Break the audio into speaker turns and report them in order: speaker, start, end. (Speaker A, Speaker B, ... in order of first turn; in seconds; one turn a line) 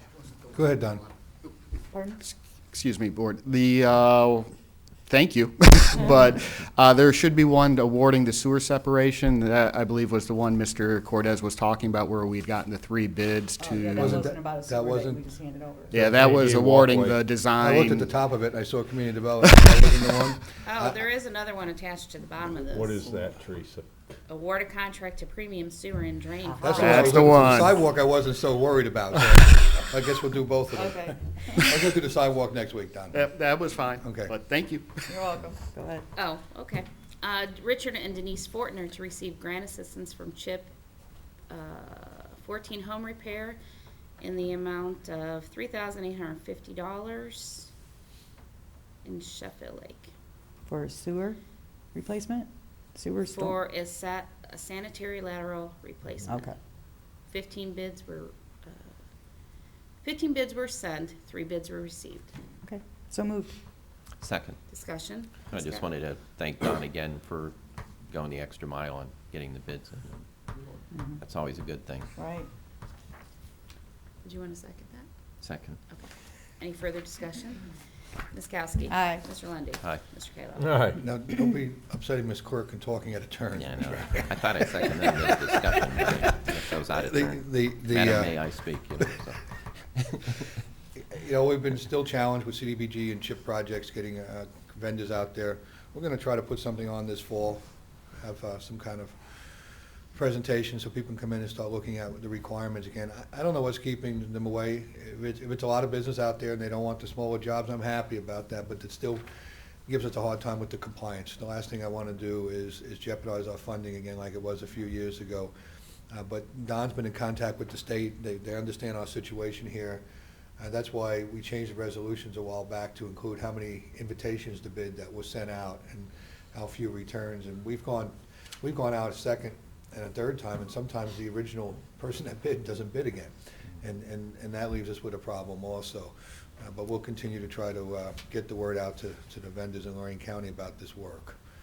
Speaker A: 0.5-1.1
Speaker B: 1.9-2.2
Speaker C: 2.2-4.5
Speaker C: 5.1-14.3
Speaker B: 13.6-16.0
Speaker A: 14.0-15.2
Speaker D: 15.9-17.2
Speaker C: 15.9-18.2
Speaker A: 17.6-21.0
Speaker C: 19.4-19.8
Speaker E: 20.6-23.1
Speaker D: 22.7-23.9
Speaker E: 24.3-27.4
Speaker B: 26.4-26.8
Speaker A: 26.6-33.3
Speaker C: 26.8-27.7
Speaker B: 30.7-31.1
Speaker C: 33.1-35.3
Speaker A: 34.0-34.3
Speaker B: 35.1-36.1
Speaker E: 36.1-40.7
Speaker E: 41.5-43.6
Speaker E: 44.2-47.7
Speaker E: 49.0-50.1
Speaker B: 50.7-51.4
Speaker B: 51.9-53.6
Speaker E: 53.2-56.5
Speaker B: 56.3-56.5
Speaker E: 57.3-59.0
Speaker E: 60.0-62.3
Speaker B: 62.6-63.5
Speaker F: 64.2-64.6
Speaker E: 64.7-65.8
Speaker F: 65.5-67.5
Speaker F: 68.1-70.2
Speaker B: 70.9-71.2
Speaker F: 71.2-72.1
Speaker B: 72.2-72.5
Speaker E: 74.2-75.1
Speaker F: 75.4-75.8
Speaker E: 75.9-77.6
Speaker E: 78.3-80.8
Speaker B: 78.9-79.2
Speaker D: 80.6-81.0
Speaker A: 81.0-85.5
Speaker F: 83.5-89.4
Speaker A: 86.9-88.4
Speaker F: 90.1-90.5
Speaker A: 91.0-97.6
Speaker A: 98.2-99.2
Speaker A: 100.1-109.2
Speaker A: 109.9-115.5
Speaker A: 116.1-120.0
Speaker A: 120.6-141.4